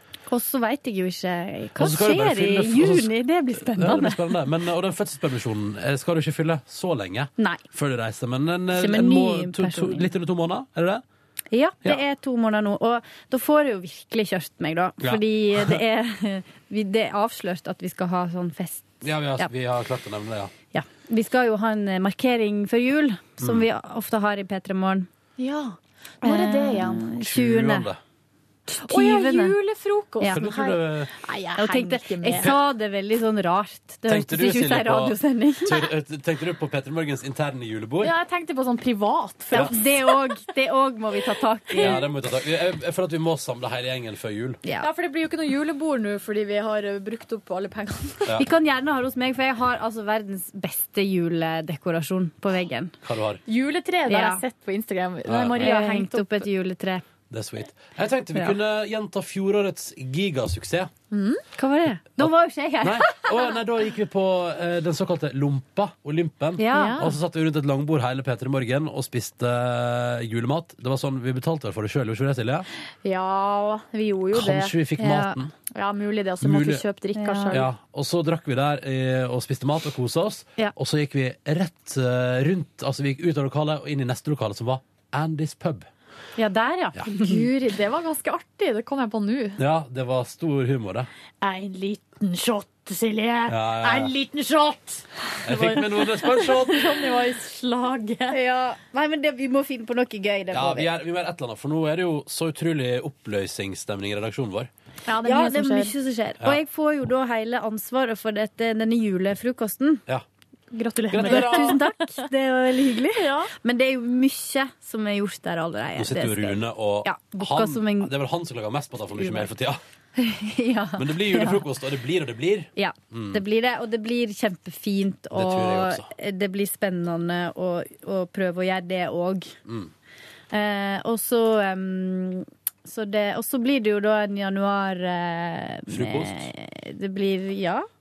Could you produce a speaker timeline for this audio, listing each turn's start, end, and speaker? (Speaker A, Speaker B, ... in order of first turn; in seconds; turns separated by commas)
Speaker A: 0.3-4.4, Speaker B: 1.8-11.0, Speaker A: 7.4-7.6, Speaker A: 8.7-10.1, Speaker A: 11.5-19.5, Speaker B: 15.0-15.8, Speaker B: 19.0-20.5, Speaker A: 20.7-25.1, Speaker B: 23.4-23.7, Speaker C: 25.4-27.1, Speaker A: 26.2-27.9, Speaker B: 27.2-28.0, Speaker A: 28.7-29.6, Speaker C: 28.8-32.5, Speaker A: 30.2-30.5, Speaker B: 30.3-31.1, Speaker A: 31.6-35.9, Speaker B: 34.1-38.1, Speaker C: 38.0-40.2, Speaker A: 39.5-42.1, Speaker C: 41.7-42.0, Speaker B: 41.8-44.6, Speaker A: 44.6-44.9, Speaker C: 44.8-48.4, Speaker A: 48.4-52.9, Speaker B: 53.0-53.4, Speaker C: 53.5-56.5, Speaker A: 54.1-54.4, Speaker B: 55.3-55.7, Speaker A: 55.5-57.0, Speaker B: 57.3-60.9, Speaker C: 61.1-61.5, Speaker A: 61.6-63.5, Speaker B: 62.2-72.7, Speaker A: 66.6-67.1, Speaker C: 66.7-67.1, Speaker C: 73.0-74.8, Speaker B: 74.3-75.5, Speaker A: 75.0-75.4, Speaker C: 75.7-77.7, Speaker B: 76.4-76.8, Speaker A: 77.2-77.7, Speaker B: 77.5-85.9, Speaker A: 86.4-87.4, Speaker C: 87.0-89.6, Speaker B: 89.6-91.1, Speaker C: 91.4-98.4, Speaker B: 93.5-94.1, Speaker B: 95.4-97.0, Speaker A: 98.3-100.9, Speaker B: 100.5-104.7, Speaker C: 105.1-106.0, Speaker A: 105.2-110.0, Speaker C: 110.7-112.2, Speaker B: 111.1-111.8, Speaker A: 111.1-118.1, Speaker C: 113.1-113.5, Speaker B: 116.0-119.8, Speaker A: 119.2-119.5, Speaker A: 120.2-121.7, Speaker B: 121.0-123.4, Speaker A: 122.8-129.6, Speaker B: 125.3-126.1, Speaker B: 129.7-129.9, Speaker A: 130.5-137.9, Speaker B: 135.9-136.5